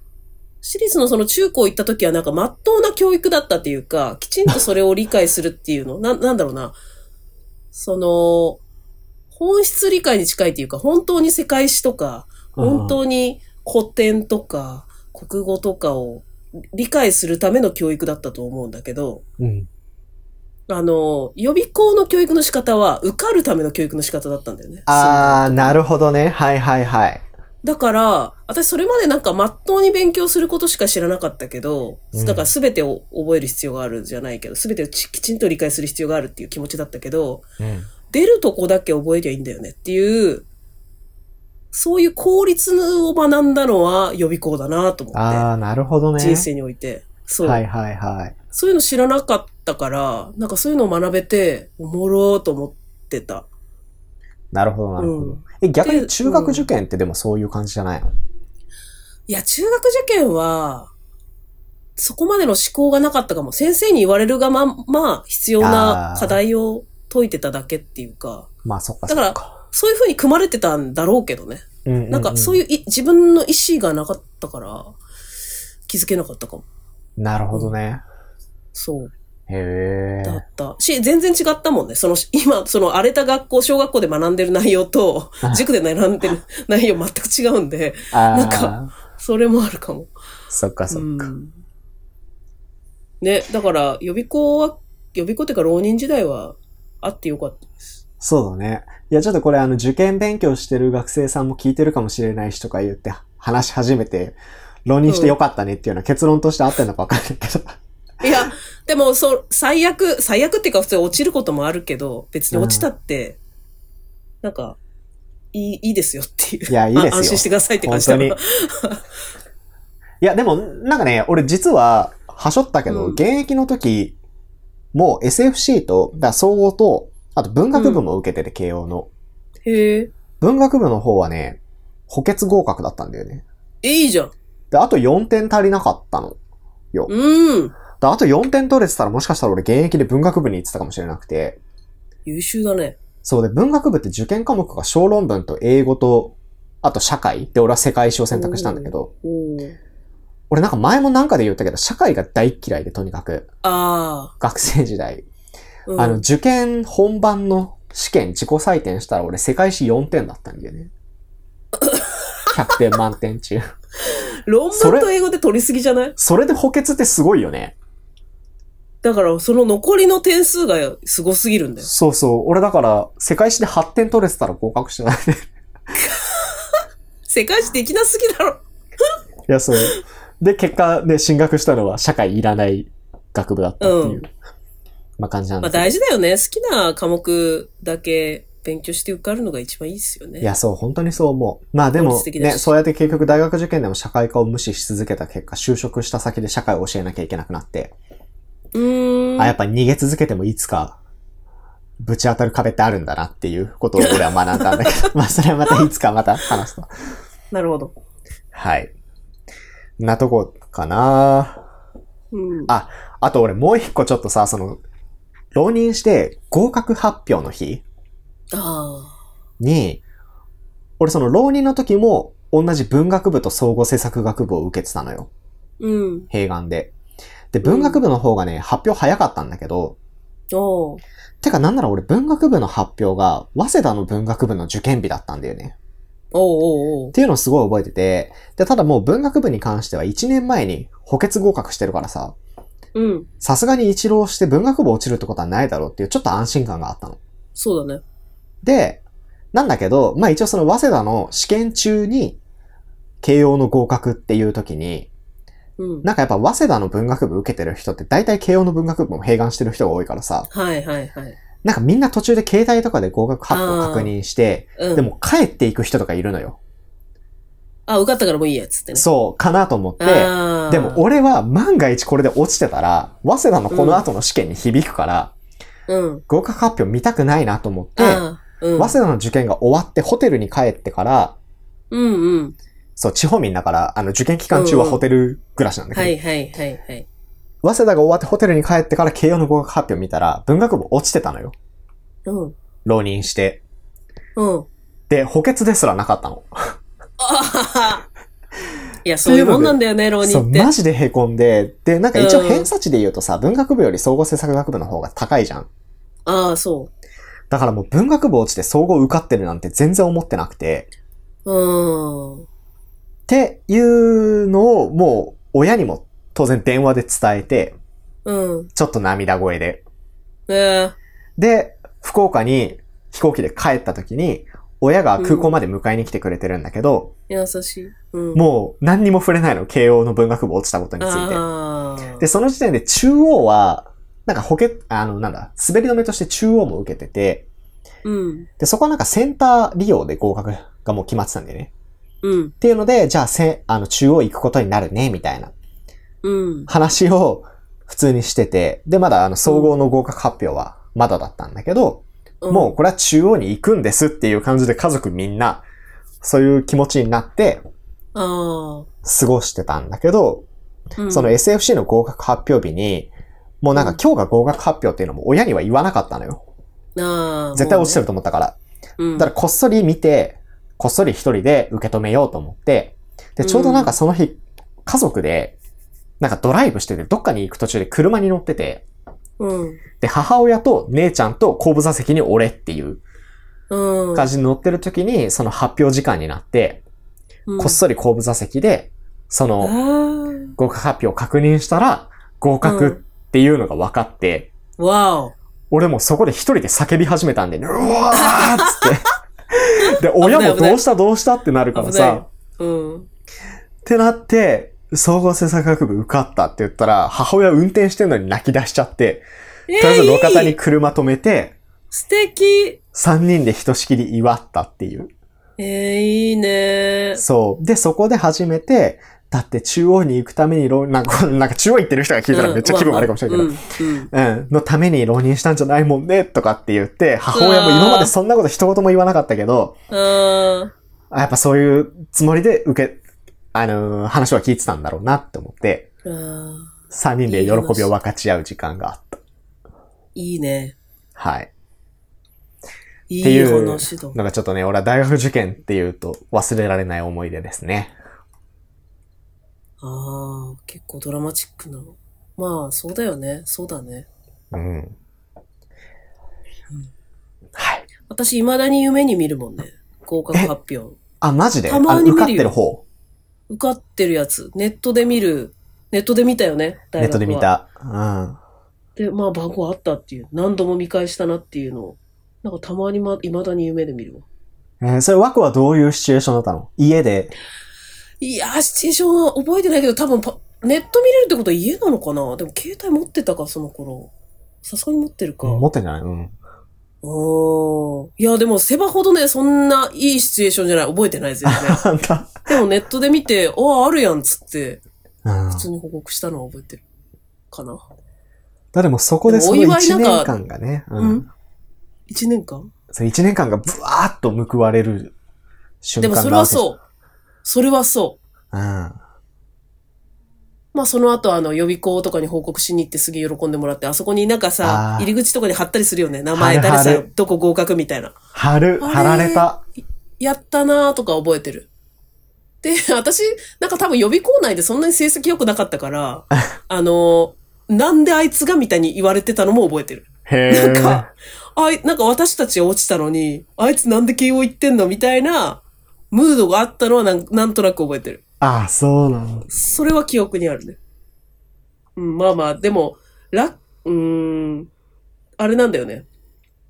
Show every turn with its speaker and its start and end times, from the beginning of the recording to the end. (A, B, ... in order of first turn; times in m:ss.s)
0:00.6-0:06.8 A
0:07.7-0:08.6 A
0:09.3-0:19.2 A
0:12.6-0:13.0 B
0:19.4-0:19.7 B
0:20.7-0:25.8 A
0:24.9-0:27.2 B
0:27.6-0:37.4 A
0:32.1-0:32.5 B
0:37.6-0:37.9 B
0:38.1-0:40.5 A
0:41.7-0:45.5 A
0:45.1-0:46.5 B
0:46.2-0:47.6 A
0:47.4-0:48.4 B
0:48.5-0:53.5 A
0:54.5-0:58.1 B
0:55.0-0:56.7 A
0:59.3-1:00.9 A
1:02.0-1:08.5 A
1:05.6-1:06.4 B
1:08.6-1:09.6 B
1:09.1-1:15.0 A
1:11.8-1:12.6 B
1:15.9-1:16.6 A
1:17.2-1:18.0 B
1:18.7-1:19.1 A
1:19.5-1:20.4 B
1:20.2-1:30.1 A
1:28.1-1:28.9 B
1:30.5-1:31.3 B
1:30.9-1:31.6 A
1:33.2-1:37.7 A
1:38.2-1:47.8 B
1:45.1-1:45.4 A
1:48.2-1:53.4 A
1:52.5-1:52.9 B
1:54.4-1:54.8 A
1:55.5-1:59.0 A
1:56.7-1:58.4 B
2:00.2-2:04.2 B
2:02.9-2:03.2 A
2:04.9-2:09.1 B
2:07.7-2:08.0 A
2:09.6-2:10.1 A
2:10.4-2:13.4 B
2:13.8-2:14.3 A
2:14.7-2:16.4 B
2:17.1-2:17.8 A
2:17.9-2:21.6 B
2:22.3-2:23.0 A
2:23.2-2:29.1 B
2:28.3-2:29.8 A
2:30.5-2:33.5 B
2:33.6-2:34.3 A
2:34.4-2:35.3 B
2:35.9-2:36.2 A
2:36.0-2:40.9 B
2:41.8-2:42.7 A
2:42.5-2:43.6 B
2:44.0-2:46.2 A
2:44.7-2:45.1 B
2:46.2-2:47.8 B
2:49.0-2:51.9 A
2:51.8-2:55.5 B
2:56.0-2:59.1 A
2:59.5-3:04.2 B
3:03.8-3:04.3 A
3:05.2-3:05.9 B
3:05.6-3:10.5 A
3:10.4-3:17.9 B
3:12.0-3:13.4 A
3:18.7-3:19.6 A
3:19.4-3:21.0 B
3:22.0-3:26.9 B
3:24.0-3:25.1 A
3:27.5-3:27.9 A
3:28.5-3:28.9 B
3:30.0-3:31.6 B
3:32.3-3:32.7 A
3:32.7-3:34.8 B
3:35.5-3:37.8 B
3:38.5-3:39.2 A
3:39.6-3:40.0 B
3:41.0-3:45.3 B
3:45.8-3:46.3 A
3:46.3-3:46.9 B
3:47.5-3:50.0 B
3:47.6-3:48.0 A
3:50.5-3:51.0 A
3:51.4-3:55.8 B
3:56.3-3:57.1 A
3:57.1-4:02.4 B
4:03.0-4:03.3 A
4:03.4-4:07.2 B
4:07.6-4:08.0 A
4:08.6-4:09.0 B
4:09.5-4:12.4 B
4:13.2-4:15.1 B
4:15.8-4:16.1 A
4:16.0-4:20.5 B
4:20.5-4:21.4 A
4:21.6-4:26.6 B
4:23.5-4:24.1 A
4:24.8-4:25.0 A
4:27.9-4:29.1 A
4:29.0-4:35.4 B
4:30.0-4:31.0 A
4:33.7-4:34.0 A
4:35.9-4:36.2 A
4:36.3-4:38.3 B
4:38.0-4:39.0 A
4:38.8-4:41.4 B
4:41.9-4:42.6 A
4:43.0-4:46.2 B
4:44.5-4:45.0 A
4:45.9-4:47.1 A
4:47.6-4:51.6 B
4:52.3-4:52.6 A
4:52.8-4:53.6 B
4:54.4-4:54.7 A
4:55.1-4:56.8 B
4:57.2-4:58.1 A
4:59.0-5:00.7 A
4:59.2-5:05.7 B
5:02.2-5:02.7 A
5:06.3-5:06.9 A
5:07.5-5:10.9 B
5:11.5-5:12.5 A
5:13.3-5:17.8 B
5:18.2-5:18.7 A
5:18.8-5:19.8 B
5:20.5-5:21.0 A
5:21.4-5:27.1 B
5:25.2-5:25.6 A
5:27.3-5:28.4 A
5:28.4-5:31.4 B
5:31.0-5:32.3 A
5:32.2-5:37.5 B
5:38.0-5:38.5 A
5:38.6-5:41.7 B
5:42.2-5:42.5 A
5:42.6-5:45.5 B
5:46.2-5:46.7 A
5:46.7-5:55.6 B
5:49.5-5:49.7 A
5:52.4-5:52.8 A
5:56.2-5:57.6 B
5:58.2-5:58.9 A
5:59.0-6:00.5 B
6:01.0-6:01.4 A
6:01.1-6:03.1 B
6:03.6-6:06.4 B
6:03.8-6:04.0 A
6:07.0-6:08.0 A
6:07.6-6:08.6 B
6:09.0-6:09.3 A
6:09.2-6:15.6 B
6:13.4-6:14.0 A
6:16.2-6:18.8 B
6:19.4-6:19.8 A
6:20.0-6:23.0 B
6:23.7-6:24.3 A
6:24.2-6:26.8 B
6:27.5-6:27.8 A
6:27.6-6:29.7 B
6:29.6-6:30.6 A
6:30.6-6:34.5 B
6:32.6-6:33.0 A
6:34.8-6:35.4 A
6:35.7-6:42.2 B
6:38.1-6:38.9 A
6:39.8-6:40.8 A
6:41.7-6:43.1 A
6:43.8-6:49.2 B
6:49.7-6:50.6 A
6:49.8-6:51.6 B
6:51.9-6:52.8 A
6:52.9-6:55.1 B
6:55.6-6:57.2 A
6:57.2-7:03.6 B
7:02.3-7:04.1 A
7:04.1-7:09.8 B
7:07.3-7:08.1 A
7:09.9-7:10.7 A
7:11.1-7:13.0 B
7:13.5-7:15.9 B
7:16.0-7:16.7 A
7:16.9-7:19.2 B
7:17.3-7:17.9 A
7:20.2-7:20.8 A
7:21.2-7:21.5 B
7:23.1-7:24.2 A
7:23.2-7:28.0 B
7:29.8-7:34.1 A
7:34.5-7:35.0 B
7:37.6-7:37.9 B
7:38.1-7:41.0 A
7:41.2-7:42.8 B
7:41.7-7:42.6 A
7:43.5-7:47.5 A
7:47.0-7:48.4 B
7:49.0-7:54.2 A
7:54.8-7:57.3 B
7:58.2-8:04.1 A
8:04.6-8:05.6 A
8:05.4-8:06.4 B
8:07.0-8:11.8 A
8:11.4-8:12.5 B
8:12.5-8:14.8 A
8:15.2-8:15.7 B
8:15.5-8:16.8 A
8:17.5-8:17.8 A
8:18.7-8:21.3 B
8:19.3-8:20.3 A
8:21.0-8:21.3 A
8:22.1-8:22.7 A
8:22.9-8:25.1 B
8:25.8-8:26.7 B
8:26.0-8:26.8 A
8:27.4-8:28.2 A
8:28.5-8:29.0 B
8:30.7-8:38.2 A
8:34.6-8:35.1 B
8:36.3-8:37.1 B
8:38.3-8:39.6 B
8:38.8-8:39.5 A
8:40.2-8:41.7 A
8:42.6-8:58.2 A
8:50.3-8:51.1 B
8:58.4-8:59.5 B
8:59.5-9:00.8 A
9:02.0-9:04.7 A
9:05.4-9:06.1 A